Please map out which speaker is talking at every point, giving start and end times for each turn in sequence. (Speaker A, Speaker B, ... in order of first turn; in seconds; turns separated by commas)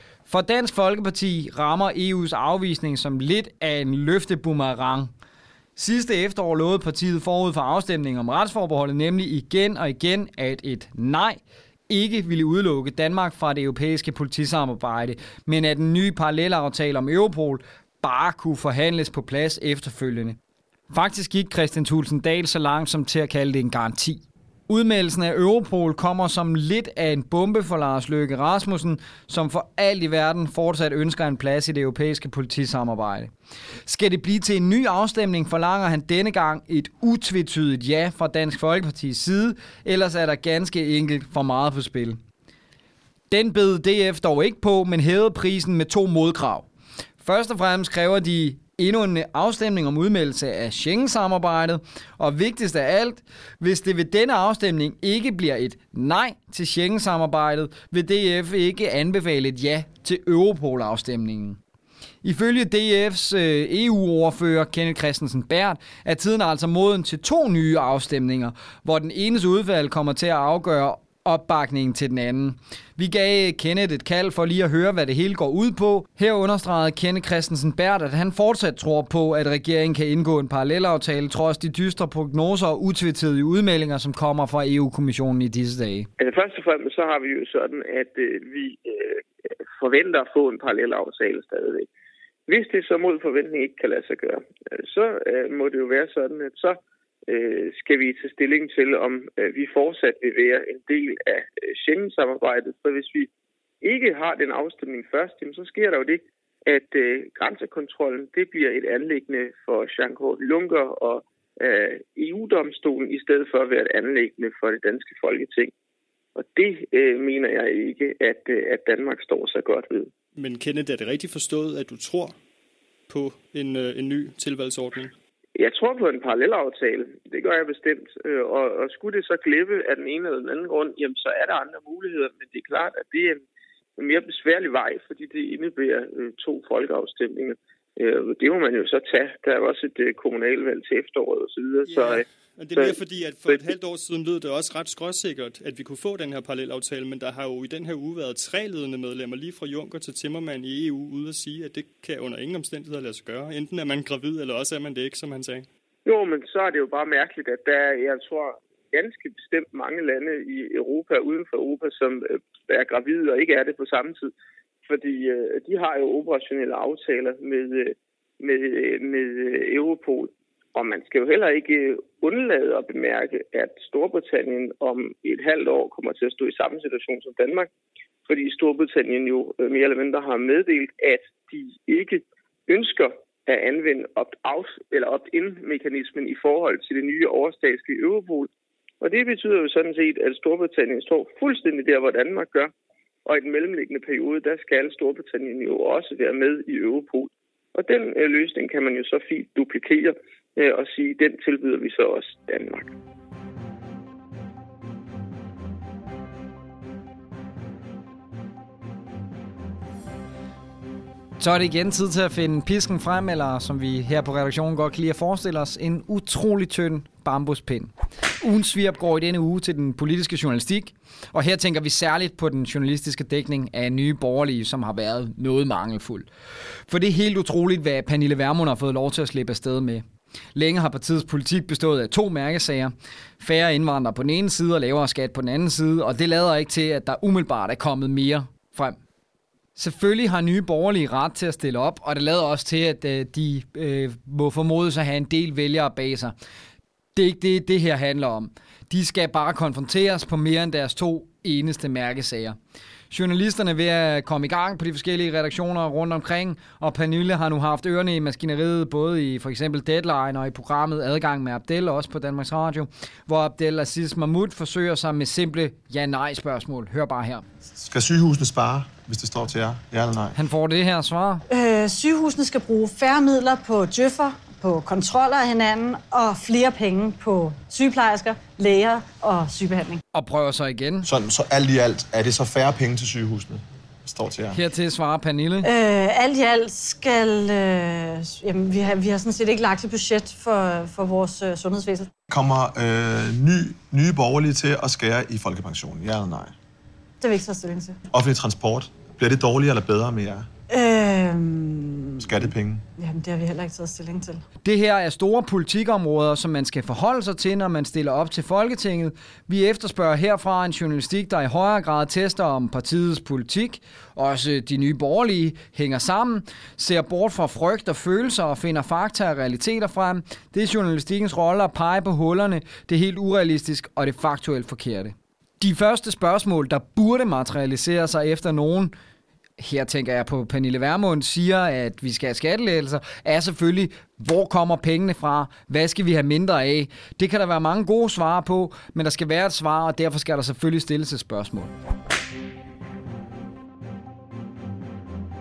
Speaker A: 0.3-5.1, Speaker A: 5.8-11.4, Speaker A: 11.9-20.4, Speaker A: 20.9-33.3, Speaker A: 33.9-42.2, Speaker A: 43.3-46.7, Speaker A: 47.2-61.6, Speaker A: 62.2-86.1, Speaker B: 86.2-89.2, Speaker B: 89.8-91.9, Speaker B: 92.5-96.8, Speaker B: 97.3-103.3, Speaker B: 103.8-115.7, Speaker B: 116.4-120.1, Speaker C: 120.4-122.4, Speaker C: 123.1-125.1, Speaker B: 125.6-133.4, Speaker B: 134.0-143.7, Speaker C: 141.9-155.7, Speaker B: 156.1-164.3, Speaker B: 164.9-177.7, Speaker B: 178.3-188.5, Speaker B: 189.0-192.7, Speaker B: 193.3-202.9, Speaker A: 211.4-226.3, Speaker A: 226.9-230.0, Speaker A: 230.6-239.0, Speaker A: 239.8-246.3, Speaker A: 247.2-252.6, Speaker A: 253.1-267.4, Speaker D: 267.8-270.4, Speaker A: 270.4-271.4, Speaker E: 271.5-280.0, Speaker A: 280.1-281.1, Speaker D: 281.1-284.6, Speaker A: 284.5-285.7, Speaker E: 285.6-292.1, Speaker D: 292.3-296.5, Speaker E: 297.2-298.0, Speaker D: 298.1-300.5, Speaker E: 300.7-302.3, Speaker D: 302.2-302.8, Speaker E: 303.0-304.4, Speaker A: 304.6-328.9, Speaker A: 329.6-341.7